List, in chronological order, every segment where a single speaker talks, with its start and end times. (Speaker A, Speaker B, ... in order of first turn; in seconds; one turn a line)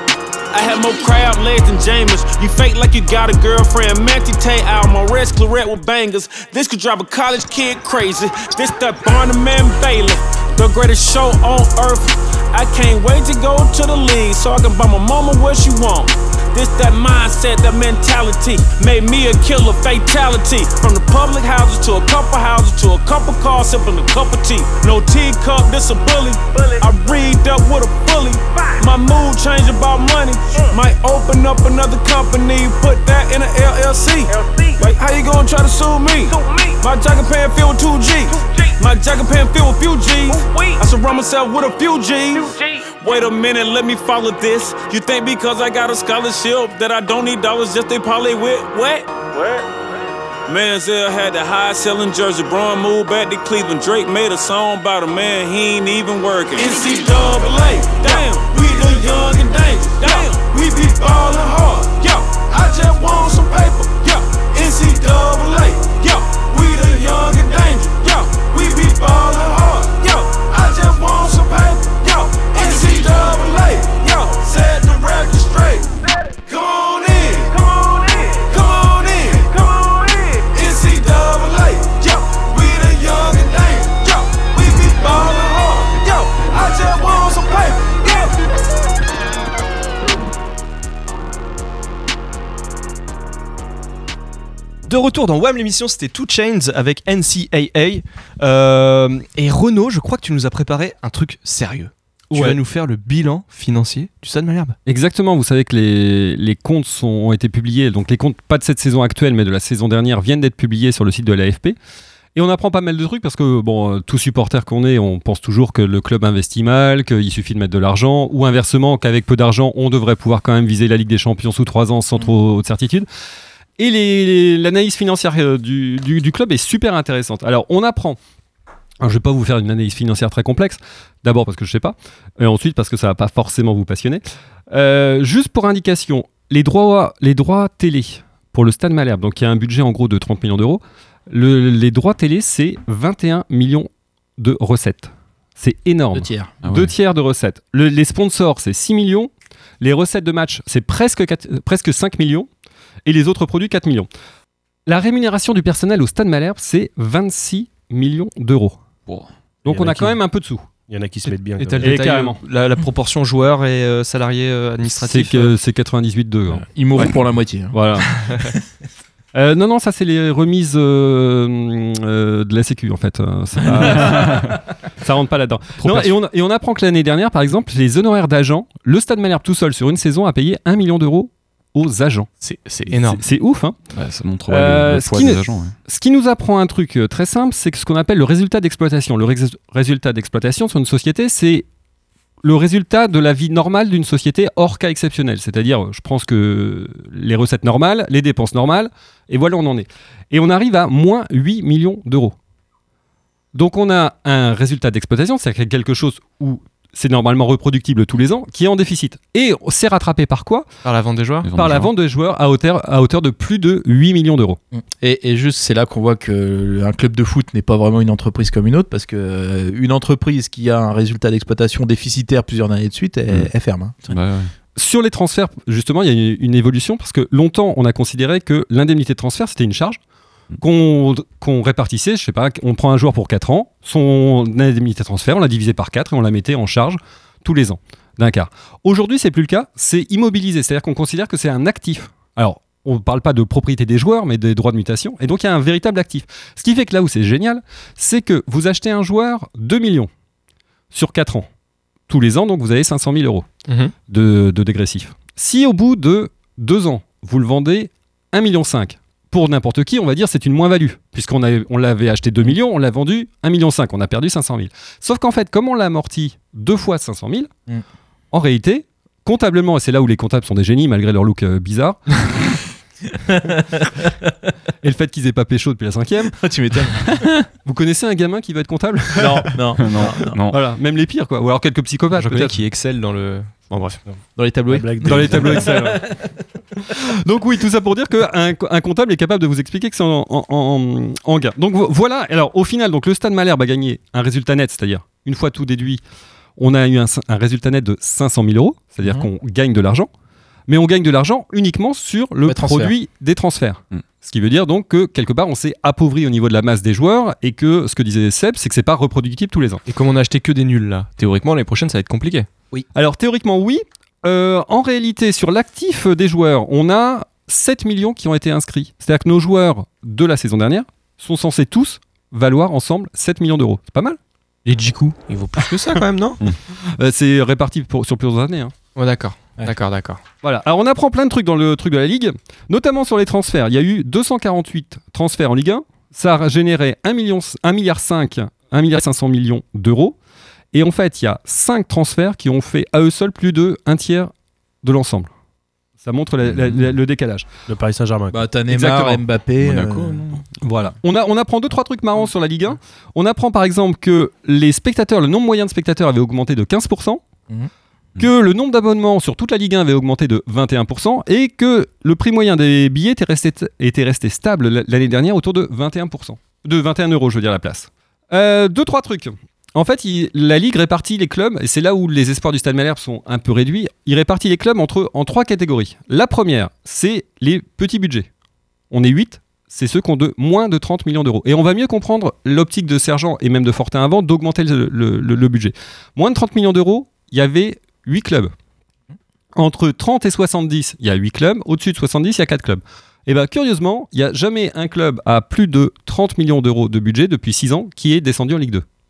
Speaker A: 0.5-49.6
Speaker A: 50.5-75.9
Speaker A: 76.5-88.2
Speaker B: 94.9-104.8
Speaker C: 102.3-102.6
Speaker C: 104.8-111.8
Speaker C: 112.3-123.1
Speaker C: 123.8-128.2
Speaker C: 129.0-152.5
Speaker D: 146.1-146.5
Speaker E: 146.6-146.9
Speaker C: 153.1-154.1
Speaker C: 154.9-158.8
Speaker E: 159.1-159.3
Speaker D: 159.6-160.1
Speaker C: 159.6-160.7
Speaker F: 160.9-162.3
Speaker C: 161.3-162.4
Speaker B: 161.6-165.5
Speaker C: 164.9-167.1
Speaker D: 166.6-167.8
Speaker C: 167.7-168.2
Speaker C: 169.3-182.3
Speaker D: 173.8-174.2
Speaker E: 174.2-174.5
Speaker B: 175.8-176.1
Speaker B: 182.4-183.2
Speaker C: 182.9-183.8
Speaker E: 183.9-185.8
Speaker C: 184.5-191.7
Speaker C: 192.4-202.3
Speaker C: 203.5-210.7
Speaker B: 210.8-211.5
Speaker E: 211.4-211.9
Speaker C: 211.5-214.6
Speaker D: 214.7-224.2
Speaker E: 224.1-224.5
Speaker C: 224.7-230.0
Speaker C: 230.6-250.1
Speaker C: 250.9-251.5
Speaker C: 252.1-253.5
Speaker B: 253.7-253.9
Speaker C: 254.1-267.5
Speaker C: 268.3-272.1
Speaker D: 273.3-273.8
Speaker C: 274.8-276.4
Speaker D: 276.3-277.3
Speaker C: 277.6-279.6
Speaker D: 279.1-280.3
Speaker E: 279.8-280.6
Speaker C: 280.5-282.6
Speaker B: 282.1-284.0
Speaker D: 284.4-286.1
Speaker F: 284.7-285.8
Speaker C: 285.0-286.1
Speaker C: 287.2-296.0
Speaker C: 296.6-300.1
Speaker C: 300.7-309.8
Speaker D: 302.4-302.9
Speaker B: 309.9-312.5
Speaker C: 312.9-324.2
Speaker B: 324.7-326.4
Speaker D: 324.7-325.2
Speaker C: 326.9-328.7
Speaker B: 328.9-330.2
Speaker C: 330.4-340.1
Speaker C: 340.7-344.3
Speaker C: 344.8-345.3
Speaker C: 346.0-347.4
Speaker F: 347.7-348.4
Speaker D: 348.3-350.4
Speaker C: 348.7-349.2
Speaker E: 349.6-350.4
Speaker C: 350.6-357.2
Speaker C: 358.2-378.3
Speaker C: 378.9-388.5
Speaker C: 389.5-398.9